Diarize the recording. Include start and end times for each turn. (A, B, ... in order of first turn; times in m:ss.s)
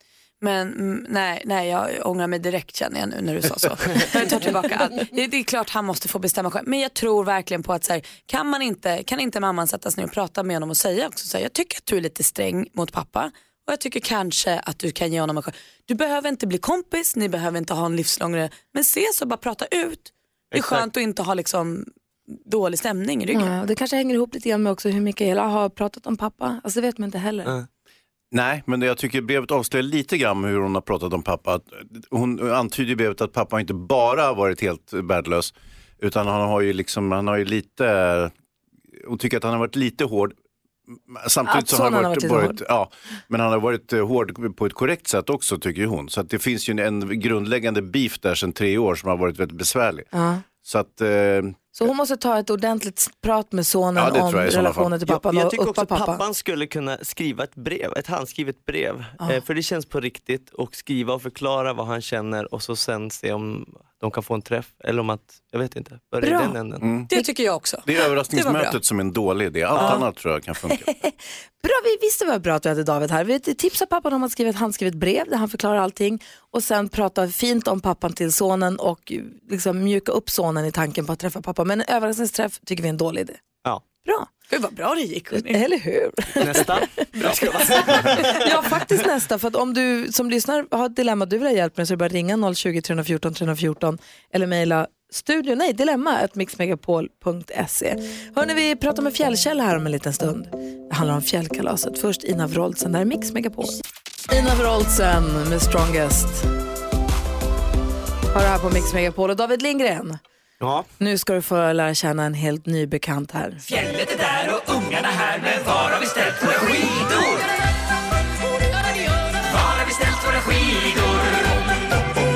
0:00.4-0:21.9 A
0:20.5-0:20.9 B
0:22.4-0:23.5 A
0:23.3-0:27.5 C
0:28.3-0:38.3 D
0:39.0-0:40.3 D
0:41.1-0:50.1 D
0:41.5-0:42.6 C
0:50.1-0:50.4 C
0:50.6-0:51.9 D
0:51.8-0:56.2 C
0:54.0-0:55.0 D
0:55.0-1:06.9 B
1:06.2-1:06.6 C
1:06.8-1:07.1 D
1:07.1-1:08.8 A
1:07.8-1:10.9 D
1:09.8-1:10.0 C
1:11.0-1:23.4 C
1:24.0-1:24.3 C
1:24.5-1:25.6 A
1:25.3-1:46.5 C
1:26.4-1:28.8 B
1:27.2-1:28.3 A
1:48.3-1:50.2 C
1:50.6-1:50.9 B
1:51.0-1:53.6 C
1:53.6-1:57.4 E
1:59.5-2:01.6 E